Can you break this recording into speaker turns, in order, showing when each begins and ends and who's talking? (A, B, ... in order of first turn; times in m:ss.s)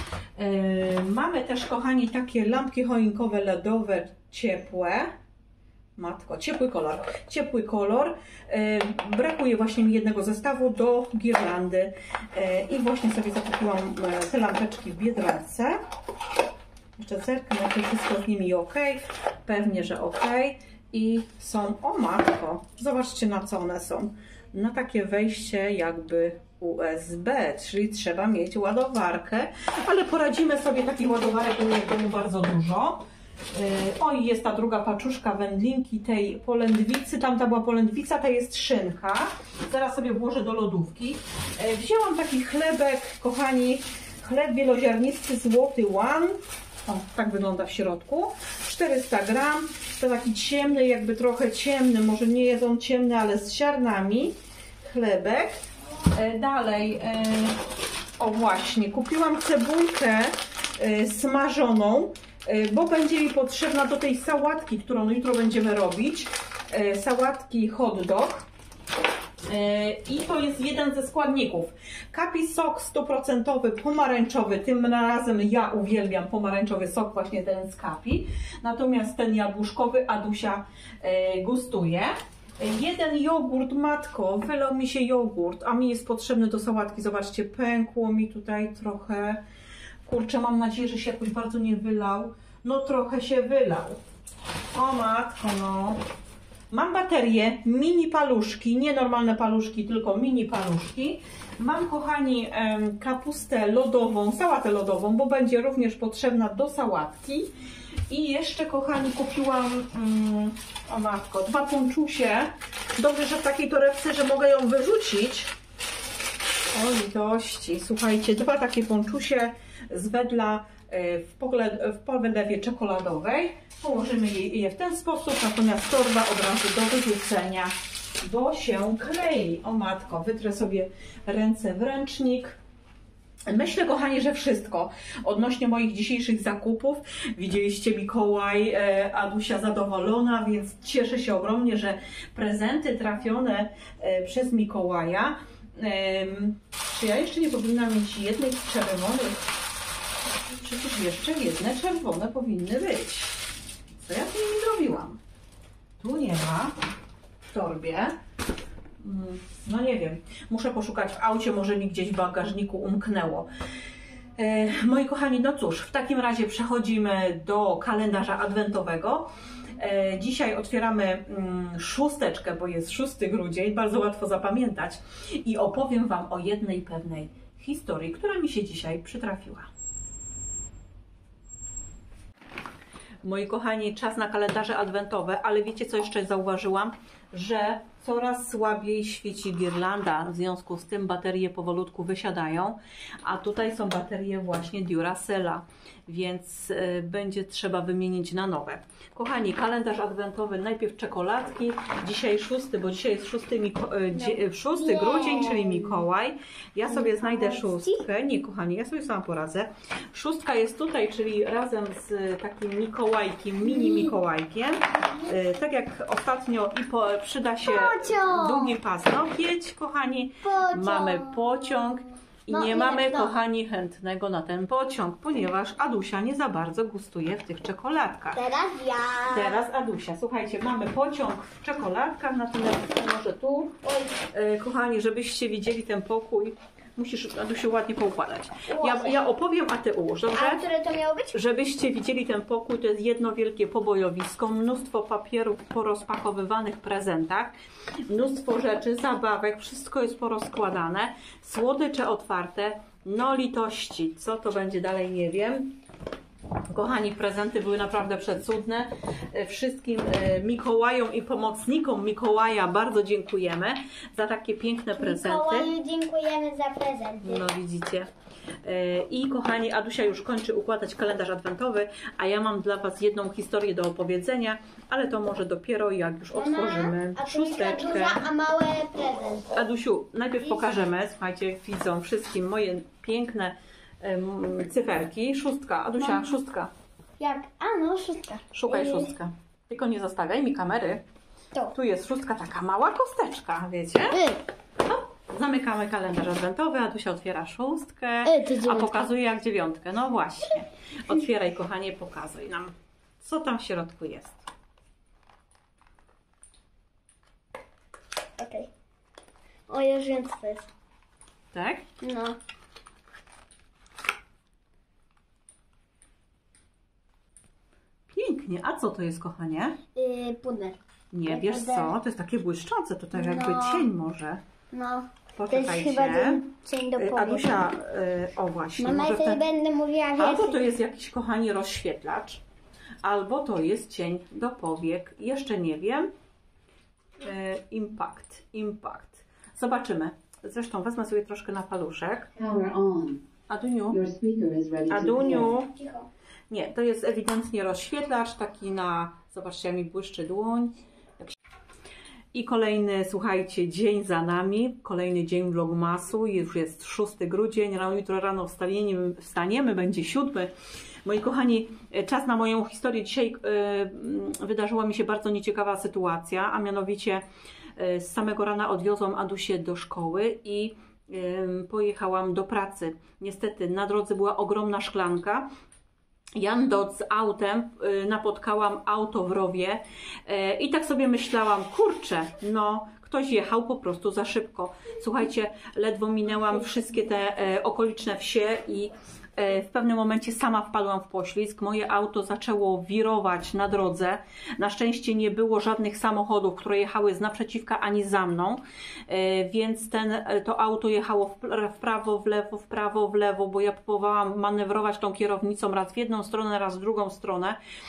0:00.4-0:05.1 A
0:06.0-0:15.8 A
0:17.0-0:33.0 A
0:33.5-0:55.6 A
0:56.1-0:57.6 A
0:58.2-1:08.4 A
1:09.5-1:29.4 A
1:30.0-1:34.0 A
1:34.7-1:36.0 A
1:36.7-1:47.5 A
1:48.1-1:55.5 A
1:56.7-2:12.6 A
2:13.5-2:29.5 A
2:30.6-2:33.4 A
2:34.0-2:35.2 A
2:36.0-2:36.7 A
2:37.5-2:38.1 A
2:39.0-2:43.5 A
2:44.4-2:59.7 A
3:03.2-3:48.4 A
3:24.1-3:26.0 B
3:27.1-3:28.0 B
3:33.8-3:34.0 B
3:37.6-3:38.7 B
3:40.4-3:41.4 B
3:42.5-3:43.4 B
3:48.3-3:49.6 B
3:49.3-3:53.8 A
3:53.8-3:54.2 B
3:54.3-4:00.6 A
3:58.7-3:59.2 B
4:00.3-4:01.3 B
4:01.3-4:07.5 A
4:08.0-4:15.8 A
4:16.7-4:25.7 A
4:24.9-4:27.4 B
4:27.2-4:28.1 A
4:28.6-4:38.2 A
4:36.3-4:39.5 B
4:39.5-4:46.7 A
4:47.2-4:49.1 B
4:48.5-4:51.0 A
4:51.7-4:54.2 A
4:54.1-4:54.4 B
4:54.8-5:04.4 A
4:58.2-4:59.0 B
5:08.4-5:08.7 B
5:09.7-5:10.7 B
5:11.5-5:11.8 A
5:12.0-5:12.4 B
5:18.1-5:19.8 A
5:20.0-5:21.9 B
5:21.1-5:24.4 A
5:23.1-5:23.8 B
5:24.7-5:27.7 B
5:25.4-5:26.4 A
5:27.0-5:29.4 A
5:28.8-5:30.6 B
5:30.2-5:32.4 A
5:33.0-5:36.1 A
5:37.2-5:42.3 A
5:42.4-5:43.2 C
5:43.5-5:44.0 A
5:43.9-5:45.5 C
5:44.9-5:45.7 A
5:45.6-5:46.1 B
5:46.5-5:51.3 A
5:52.3-6:00.5 A
6:01.0-6:07.2 A
6:07.8-6:15.5 A
6:16.4-6:47.6 A